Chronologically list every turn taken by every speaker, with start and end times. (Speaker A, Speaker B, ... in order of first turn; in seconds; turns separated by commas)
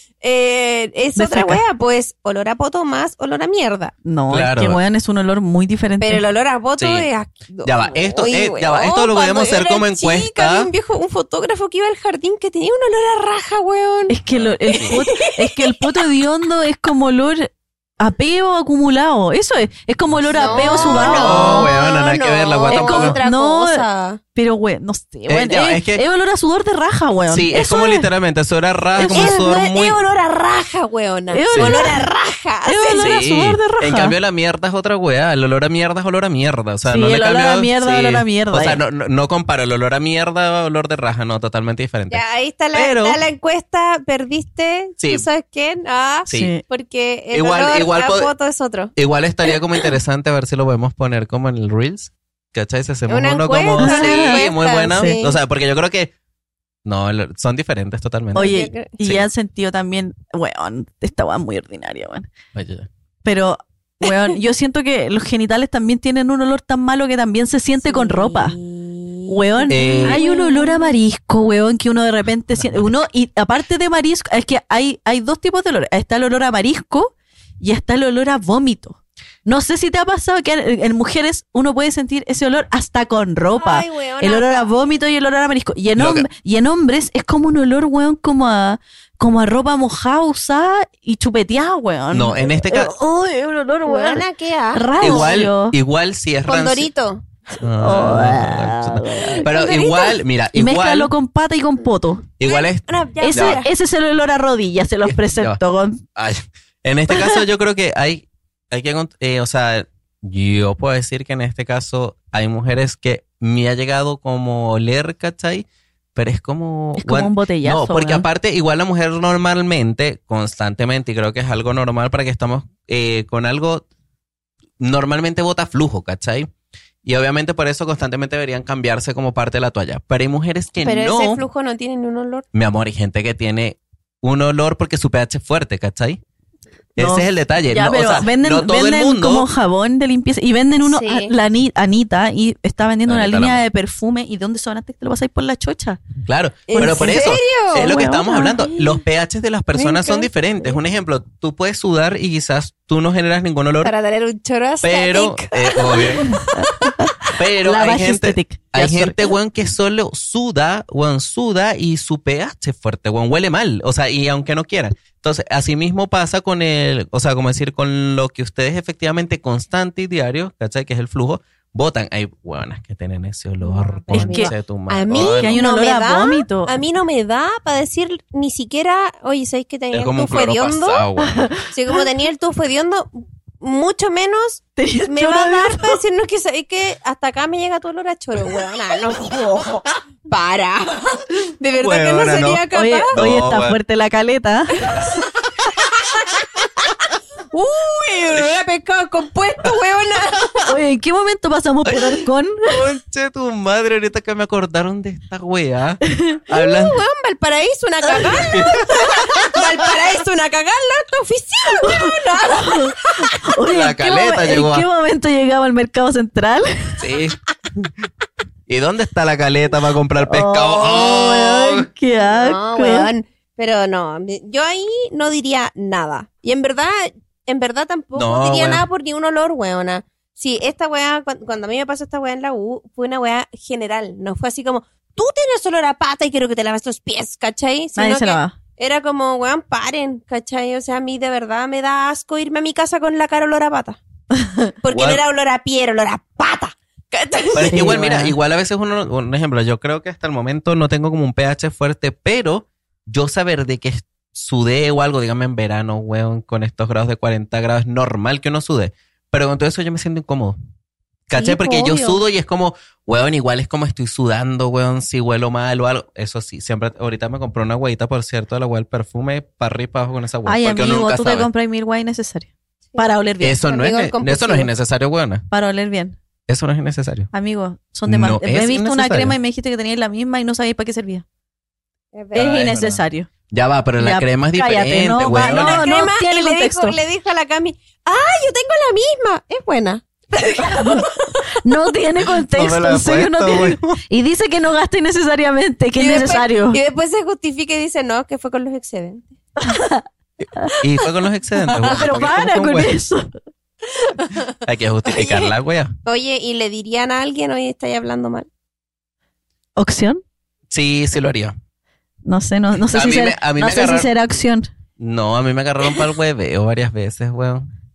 Speaker A: 0.2-3.9, Speaker B: 1.1-1.6, Speaker B: 4.0-6.2, Speaker C: 4.3-4.8, Speaker A: 6.0-14.2, Speaker C: 6.8-7.1, Speaker C: 7.6-10.7, Speaker B: 14.1-21.7, Speaker C: 14.3-15.0, Speaker A: 14.7-16.0, Speaker C: 20.2-23.2, Speaker A: 20.3-24.2, Speaker B: 22.7-23.8, Speaker B: 24.3-28.1, Speaker C: 25.3-26.0, Speaker C: 27.3-30.0, Speaker B: 29.0-29.4, Speaker A: 29.1-33.2, Speaker B: 31.3-32.1, Speaker C: 31.5-31.8, Speaker B: 32.6-34.1, Speaker C: 33.0-42.2, Speaker B: 36.8-38.8, Speaker A: 42.1-48.9, Speaker C: 42.7-43.2, Speaker C: 45.0-45.2, Speaker C: 46.3-46.5, Speaker B: 46.3-46.6, Speaker C: 47.3-48.3, Speaker C: 49.0-56.1, Speaker A: 49.5-49.9, Speaker A: 53.1-55.4, Speaker B: 53.8-55.2, Speaker C: 56.8-59.3, Speaker B: 58.3-62.3, Speaker A: 58.4-58.9, Speaker C: 62.5-62.9, Speaker B: 63.2-68.5, Speaker A: 67.8-71.0, Speaker B: 69.3-95.8, Speaker C: 69.7-70.2, Speaker A: 83.6-84.7, Speaker C: 86.0-86.3, Speaker C: 92.1-92.9, Speaker A: 93.8-95.4, Speaker C: 95.0-96.9, Speaker A: 96.5-97.2, Speaker C: 97.6-101.1, Speaker B: 97.8-99.5, Speaker A: 99.4-100.2, Speaker B: 100.5-102.2, Speaker C: 102.4-103.6, Speaker A: 102.4-103.7, Speaker B: 103.2-106.0, Speaker C: 105.0-105.6, Speaker C: 106.1-123.8, Speaker B: 117.0-118.2, Speaker C: 124.8-126.5, Speaker C: 127.0-131.4, Speaker A: 130.8-132.4, Speaker C: 132.5-136.2, Speaker C: 137.0-139.5, Speaker B: 137.0-146.0, Speaker A: 140.8-141.3, Speaker C: 143.1-143.6, Speaker C: 146.2-153.9, Speaker A: 146.7-147.9, Speaker B: 146.7-148.6, Speaker A: 149.7-150.3, Speaker A: 153.8-156.9, Speaker C: 154.8-156.4, Speaker B: 156.5-159.2, Speaker C: 157.4-175.6, Speaker A: 173.6-181.0, Speaker B: 174.1-174.5, Speaker B: 175.2-176.7, Speaker C: 179.9-181.5, Speaker B: 181.2-181.6, Speaker A: 181.7-193.1, Speaker B: 184.8-186.0, Speaker C: 191.8-193.8, Speaker B: 192.7-194.9, Speaker A: 194.8-195.1, Speaker C: 194.9-195.2, Speaker A: 195.8-200.7, Speaker B: 200.6-202.8, Speaker C: 201.8-207.0, Speaker B: 206.0-206.4, Speaker A: 206.5-213.3, Speaker C: 208.5-209.7, Speaker B: 211.7-217.0, Speaker C: 213.7-214.8, Speaker C: 217.0-217.4, Speaker C: 218.7-221.9, Speaker B: 220.2-223.1, Speaker A: 222.3-244.0, Speaker C: 228.2-228.8, Speaker B: 238.0-238.6, Speaker B: 244.3-244.7, Speaker A: 244.8-248.1, Speaker C: 244.9-245.2, Speaker C: 247.5-260.5, Speaker B: 247.6-248.3, Speaker C: 261.3-271.5, Speaker A: 261.3-262.2, Speaker B: 270.4-273.6, Speaker C: 273.4-275.4, Speaker A: 273.6-274.7, Speaker B: 275.5-276.1, Speaker C: 276.5-277.3, Speaker B: 277.3-281.2, Speaker C: 278.1-279.3, Speaker A: 282.1-282.5, Speaker B: 282.3-283.3, Speaker C: 282.3-285.8, Speaker B: 284.0-287.0, Speaker A: 285.3-291.5, Speaker B: 290.6-291.1, Speaker B: 291.6-296.8, Speaker C: 292.5-293.9, Speaker A: 296.0-299.4, Speaker B: 299.6-300.0, Speaker B: 300.5-300.8, Speaker C: 300.8-302.9, Speaker A: 301.8-302.0, Speaker B: 301.8-303.4, Speaker A: 303.9-304.5, Speaker C: 304.6-305.9, Speaker A: 305.1-305.5, Speaker A: 306.0-308.5, Speaker B: 309.8-310.2, Speaker C: 310.7-311.5, Speaker B: 312.2-314.7, Speaker C: 312.9-314.1, Speaker C: 315.0-317.7